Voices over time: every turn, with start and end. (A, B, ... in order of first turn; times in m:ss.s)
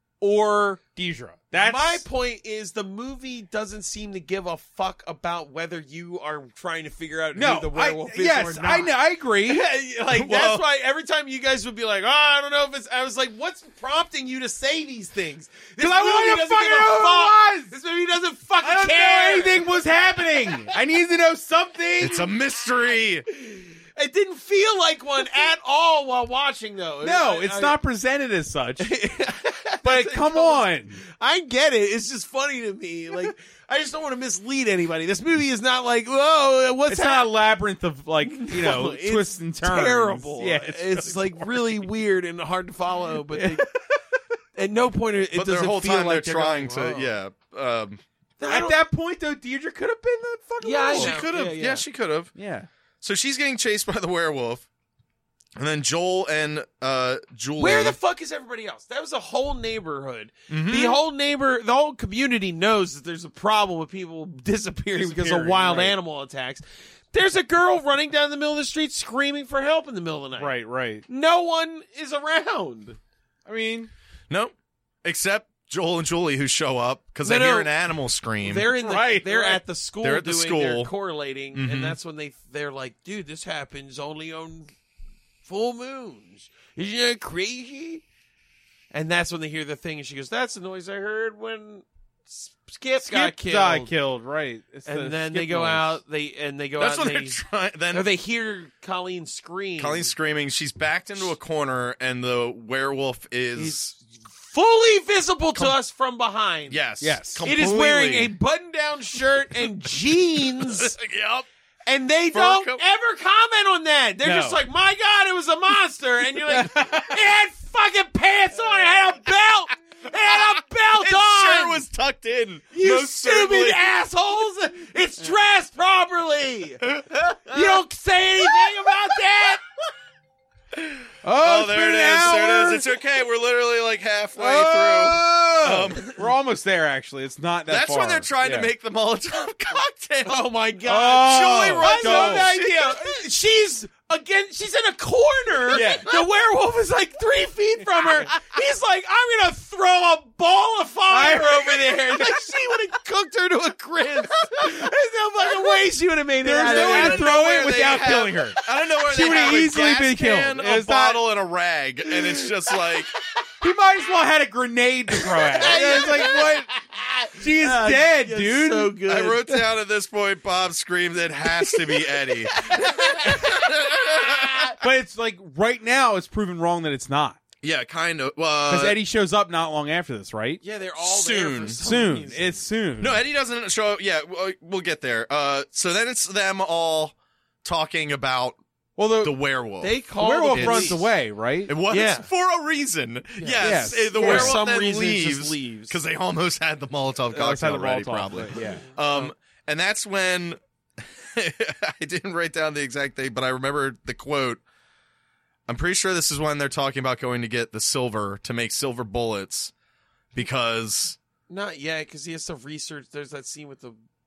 0:00.2-0:02.0 A
0:01.5-0:09.0 B
0:07.4-0:09.7 A
0:09.5-0:19.7 B
0:10.1-0:10.6 C
0:15.8-0:17.7 A
0:18.6-0:22.3 A
0:22.0-0:23.3 C
0:23.3-0:27.8 B
0:27.0-0:29.0 A
0:28.8-0:37.3 B
0:29.8-0:31.0 A
0:36.9-0:41.6 A
0:38.2-0:43.7 B
0:43.3-0:44.0 A
0:44.6-0:47.1 B
0:45.3-0:48.0 C
0:48.4-0:48.8 B
0:48.5-0:51.2 A
0:50.6-0:51.8 B
0:50.9-0:52.3 C
0:52.4-0:52.7 A
0:53.0-0:54.7 C
0:55.6-0:58.0 C
0:57.6-1:13.0 B
1:00.5-1:01.0 C
1:05.0-1:06.0 A
1:10.4-1:11.0 A
1:13.5-1:13.9 A
1:14.3-1:18.7 C
1:17.2-1:17.7 B
1:18.4-1:24.7 B
1:18.8-1:19.6 A
1:20.0-1:20.9 C
1:21.5-1:22.0 C
1:25.4-1:28.0 B
1:28.9-1:33.9 B
1:33.0-1:36.0 A
1:34.9-1:37.4 B
1:36.8-1:38.1 C
1:37.9-1:40.1 B
1:39.8-1:43.9 C
1:43.6-1:46.8 B
1:46.7-1:48.3 C
1:47.0-1:47.5 A
1:47.4-1:51.0 B
1:50.6-1:51.5 C
1:51.9-2:01.8 B
1:52.3-1:52.8 C
1:54.2-1:54.6 A
1:56.5-1:57.1 A
2:01.0-2:03.9 C
2:02.7-2:06.9 B
2:06.9-2:07.8 C
2:07.5-2:09.6 B
2:10.8-2:16.2 C
2:11.2-2:12.8 A
2:14.4-2:18.7 A
2:17.7-2:20.5 C
2:20.3-2:38.7 B
2:20.9-2:22.5 A
2:21.1-2:23.2 C
2:25.7-2:26.1 A
2:31.1-2:32.3 A
2:36.4-2:38.6 A
2:36.6-2:43.1 C
2:39.1-2:41.2 A
2:43.6-2:46.7 A
2:45.2-2:49.6 B
2:47.4-2:49.0 A
2:49.1-2:54.8 C
2:51.7-2:52.0 B
2:52.6-2:54.7 B
2:54.8-2:57.4 A
2:57.6-2:59.0 C
2:58.7-3:00.6 A
3:00.6-3:02.7 B
3:01.0-3:01.8 C
3:01.8-3:03.2 A
3:03.0-3:08.6 C
3:09.0-3:09.4 A
3:09.2-3:10.0 C
3:09.8-3:11.1 B
3:10.2-3:11.7 A
3:10.5-3:11.0 C
3:11.7-3:24.6 C
3:11.9-3:12.3 B
3:13.4-3:16.0 B
3:13.6-3:14.6 A
3:17.3-3:18.8 A
3:18.6-3:19.3 B
3:25.7-3:29.7 C
3:30.3-3:31.2 C
3:31.5-3:34.0 B